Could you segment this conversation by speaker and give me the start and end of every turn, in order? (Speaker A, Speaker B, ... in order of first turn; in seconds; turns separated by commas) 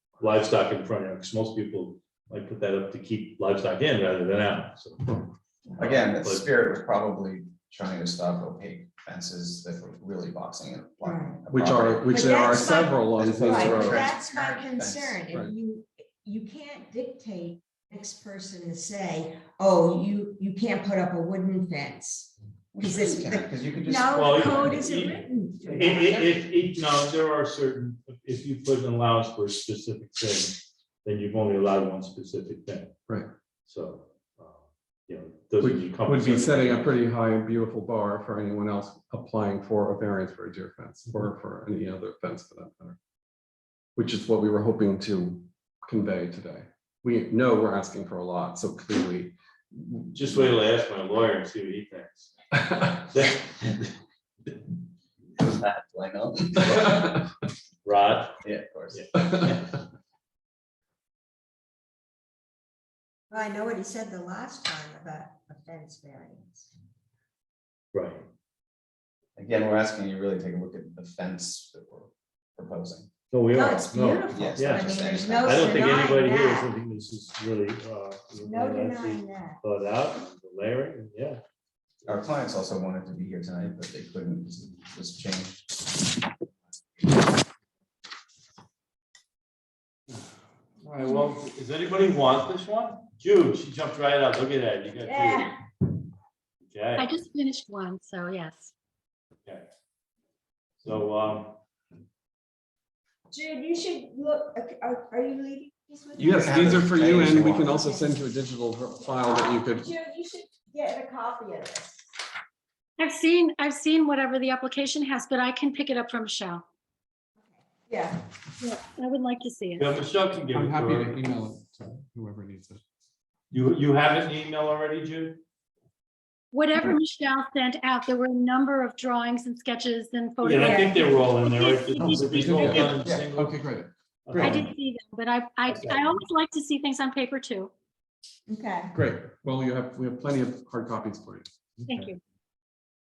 Speaker A: 0.2-5.3, Speaker A: 5.8-6.5, Speaker B: 5.8-15.3, Speaker C: 11.0-11.4, Speaker D: 11.5-14.1, Speaker C: 12.0-26.1, Speaker B: 22.7-25.0, Speaker A: 24.1-32.9, Speaker B: 25.8-26.4, Speaker A: 33.6-36.9, Speaker D: 35.6-43.0, Speaker D: 44.0-50.1, Speaker A: 50.1-52.3, Speaker A: 52.9-53.9, Speaker B: 55.4-57.2, Speaker A: 57.8-58.4, Speaker B: 58.4-59.1, Speaker A: 58.9-59.8, Speaker C: 63.3-66.7, Speaker A: 67.9-68.3, Speaker B: 69.3-73.1, Speaker A: 73.3-81.4, Speaker C: 73.5-76.7, Speaker B: 74.3-76.1, Speaker C: 78.4-79.6, Speaker B: 82.0-85.8, Speaker B: 87.0-87.2, Speaker A: 90.8-95.5, Speaker C: 95.0-95.5, Speaker A: 96.7-97.1, Speaker E: 97.0-98.7, Speaker A: 100.8-101.6, Speaker C: 103.3-106.9, Speaker D: 106.2-109.9, Speaker B: 106.2-107.8, Speaker C: 107.6-108.1, Speaker C: 109.0-112.0, Speaker E: 113.0-116.6, Speaker C: 117.4-118.3, Speaker E: 118.6-119.8, Speaker A: 119.8-121.2, Speaker D: 120.5-122.8, Speaker A: 123.5-125.4, Speaker E: 126.5-132.8, Speaker A: 130.4-133.6, Speaker C: 130.6-131.0, Speaker B: 131.9-133.3, Speaker D: 133.3-134.7, Speaker A: 134.2-134.7, Speaker E: 134.4-137.7, Speaker A: 135.7-136.2, Speaker C: 138.5-138.9, Speaker D: 138.9-141.5, Speaker A: 141.8-142.1, Speaker E: 141.9-142.2